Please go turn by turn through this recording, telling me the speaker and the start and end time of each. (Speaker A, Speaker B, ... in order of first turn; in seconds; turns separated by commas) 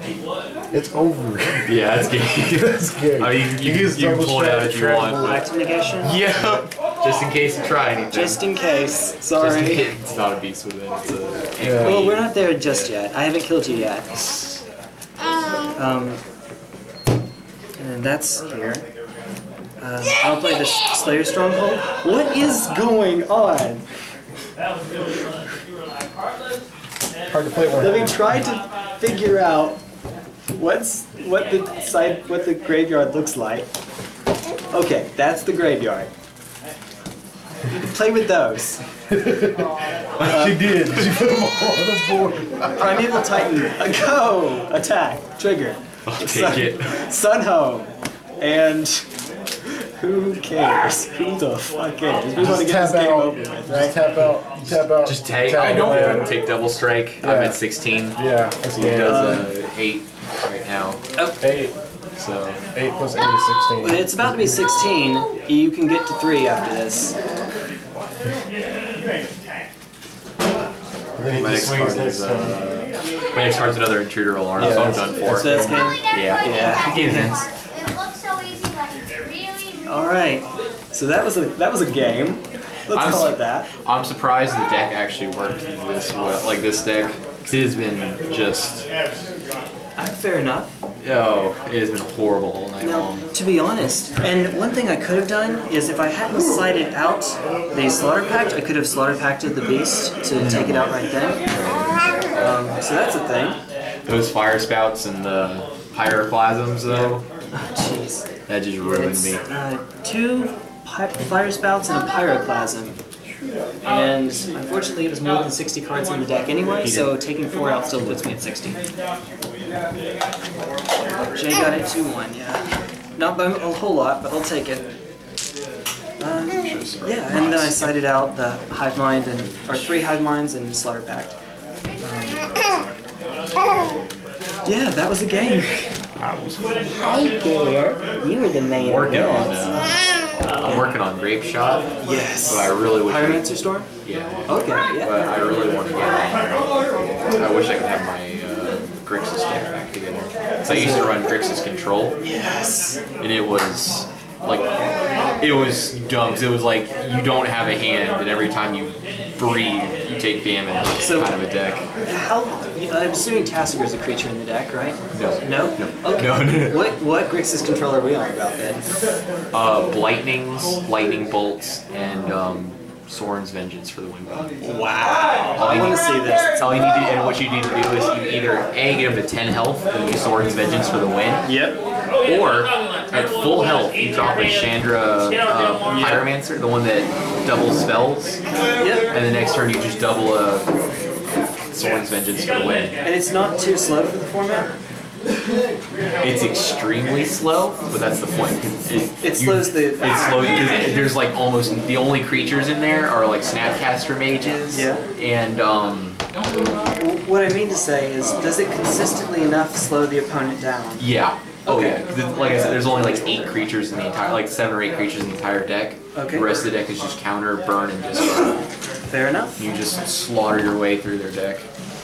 Speaker A: 0.7-5.5, Speaker B: 1.6-5.4, Speaker C: 5.2-6.2, Speaker B: 6.0-8.4, Speaker A: 6.3-6.6, Speaker C: 8.1-9.8, Speaker B: 9.3-12.9, Speaker A: 11.6-12.0, Speaker C: 11.8-14.1, Speaker B: 14.1-14.6, Speaker C: 15.8-16.2, Speaker C: 17.8-18.9, Speaker C: 19.8-23.8, Speaker A: 27.3-28.2, Speaker C: 27.8-29.8, Speaker C: 30.6-33.6, Speaker C: 34.7-36.1, Speaker C: 37.8-38.8, Speaker A: 39.1-39.7, Speaker A: 40.2-43.2, Speaker C: 40.2-40.6, Speaker C: 42.8-49.1, Speaker B: 46.0-46.9, Speaker C: 50.0-54.1, Speaker A: 52.4-56.4, Speaker B: 55.0-61.0, Speaker A: 57.2-57.6, Speaker A: 58.1-59.5, Speaker C: 59.0-59.5, Speaker A: 61.4-61.7, Speaker B: 62.2-62.6, Speaker A: 62.7-64.7, Speaker C: 63.8-67.1, Speaker A: 71.2-72.7, Speaker B: 71.3-77.4, Speaker A: 74.6-75.7, Speaker C: 74.6-77.4, Speaker D: 75.7-80.0, Speaker C: 79.8-83.7, Speaker B: 82.9-88.8, Speaker C: 90.0-90.7, Speaker B: 91.0-93.3, Speaker C: 92.8-101.4, Speaker B: 100.4-102.6, Speaker C: 102.4-103.6, Speaker B: 104.0-107.2, Speaker C: 107.5-108.2, Speaker B: 108.5-109.4, Speaker C: 108.8-113.0, Speaker C: 113.8-118.8, Speaker B: 116.8-117.1, Speaker B: 117.9-118.2, Speaker C: 121.3-122.7, Speaker C: 123.2-124.8, Speaker C: 126.2-131.3, Speaker B: 126.5-127.9, Speaker B: 129.6-129.9, Speaker C: 132.0-132.5, Speaker C: 134.6-135.9, Speaker B: 136.2-136.7, Speaker C: 137.0-140.0, Speaker B: 138.8-139.9, Speaker B: 140.6-143.4, Speaker C: 142.0-143.9, Speaker B: 144.0-152.2, Speaker C: 144.5-145.1, Speaker C: 150.7-151.2, Speaker C: 152.2-153.0, Speaker B: 153.2-154.7, Speaker B: 155.4-161.9, Speaker C: 161.0-161.3, Speaker C: 162.0-168.8, Speaker B: 165.1-166.9, Speaker B: 169.5-174.5, Speaker C: 174.6-176.6, Speaker B: 175.5-181.5, Speaker C: 181.4-181.8, Speaker B: 182.2-188.4, Speaker C: 185.8-186.3, Speaker C: 188.8-189.1, Speaker B: 189.1-190.7, Speaker B: 191.7-193.0, Speaker C: 193.0-194.8, Speaker B: 196.2-206.2, Speaker C: 199.2-200.7, Speaker C: 204.7-205.0, Speaker C: 207.0-211.1, Speaker B: 211.0-218.6, Speaker C: 211.7-212.9, Speaker C: 216.1-216.6, Speaker C: 219.1-219.6, Speaker B: 219.6-221.7